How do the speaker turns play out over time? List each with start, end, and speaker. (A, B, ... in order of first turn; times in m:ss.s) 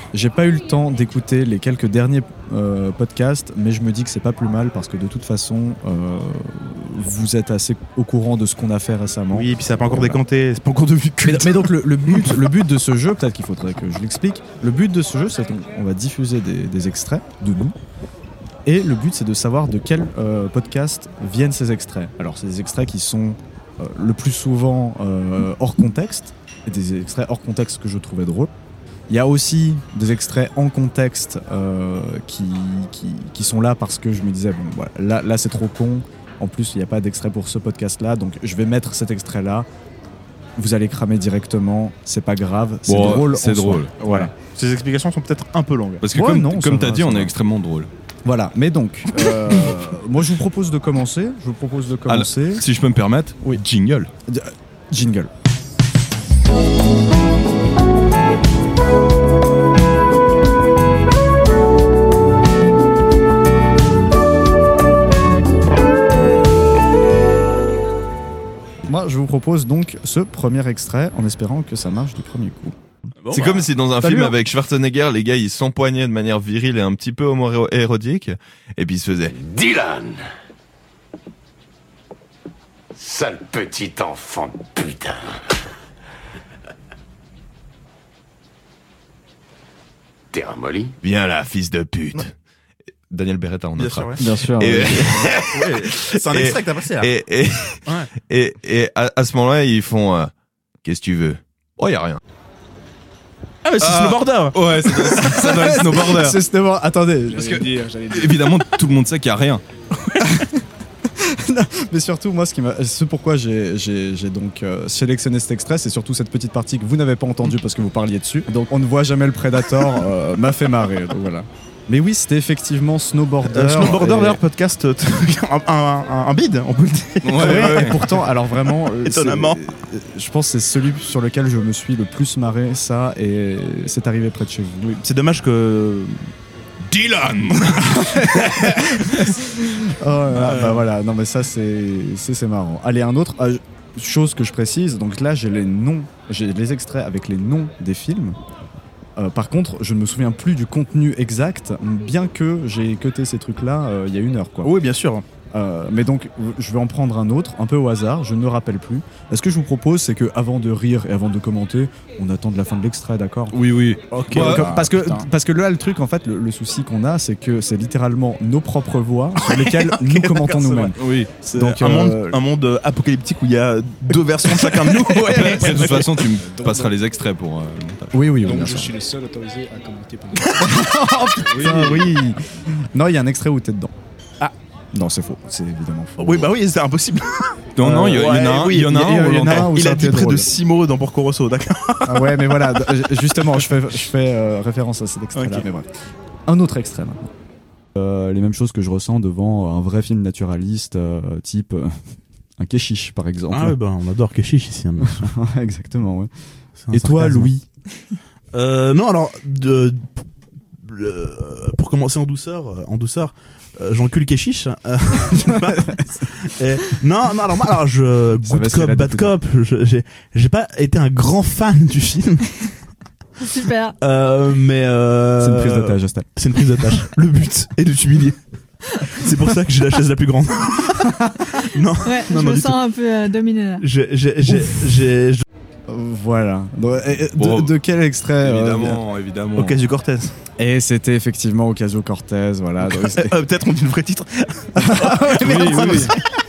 0:00.1-0:10.2 A
0:09.3-0:12.4 B
0:11.2-0:17.8 A
0:18.7-0:28.5 A
0:29.1-0:39.7 A
0:40.6-0:44.3 A
0:42.9-0:44.0 C
0:44.0-0:46.0 B
0:46.0-0:47.9 C
0:46.1-0:47.3 A
0:48.2-0:52.7 A
0:52.1-0:54.1 C
0:54.3-0:55.3 A
1:08.8-1:12.8 A
1:13.2-1:13.7 B
1:13.3-1:19.4 C
1:14.0-1:14.4 A
1:19.4-1:20.2 D
1:23.0-1:25.3 D
1:30.3-1:30.9 D
1:31.0-1:32.3 C
1:33.1-1:40.3 C
1:33.8-1:34.2 B
1:34.2-1:35.2 A
1:35.3-1:37.1 B
1:40.8-1:42.2 C
1:43.6-1:45.5 B
1:43.8-1:46.4 C
1:45.0-1:47.6 A
1:47.3-1:48.6 E
1:47.4-1:49.6 C
1:50.2-2:04.4 A
2:03.4-2:08.0 B
2:07.2-2:08.0 C
2:07.4-2:15.0 A
2:09.0-2:09.6 B
2:14.9-2:16.3 B
2:16.8-2:19.3 C
2:18.4-2:28.4 A
2:20.4-2:20.8 B
2:29.2-2:34.7 A
2:34.6-2:35.2 B
2:35.5-2:43.6 A
2:43.5-2:44.8 C
2:44.1-2:45.3 B
2:44.3-2:51.0 A
2:49.4-2:56.2 B
2:51.0-2:51.3 C
2:51.5-2:52.4 A
2:55.1-2:58.2 C
2:55.4-2:56.9 E
2:58.1-2:58.9 A
2:58.4-3:00.8 E
3:00.6-3:03.9 A
3:01.6-3:02.0 B
3:04.9-3:06.5 A
3:06.2-3:12.6 B
3:07.8-3:09.7 C
3:08.9-3:10.5 A
3:12.1-3:15.9 A
3:15.4-3:15.7 B
3:16.4-3:17.3 A
3:17.9-3:22.0 A
3:22.6-3:23.8 A
3:23.5-3:25.3 B
3:25.0-3:26.3 A
3:26.8-3:27.5 B
3:26.9-3:27.6 A
3:28.5-3:30.1 B
3:30.8-3:42.6 B
3:38.4-3:39.4 A
3:43.5-3:44.0 F
3:44.0-3:48.4 B
3:45.4-3:46.3 A
3:49.0-3:52.8 B
3:52.0-3:53.8 F
3:53.8-3:55.4 B
3:55.9-3:59.0 A
3:57.4-3:57.8 C
3:58.4-3:59.8 C
3:59.6-4:00.3 B
4:00.6-4:03.4 A
4:02.9-4:06.1 B
4:04.8-4:06.2 A
4:05.4-4:06.1 C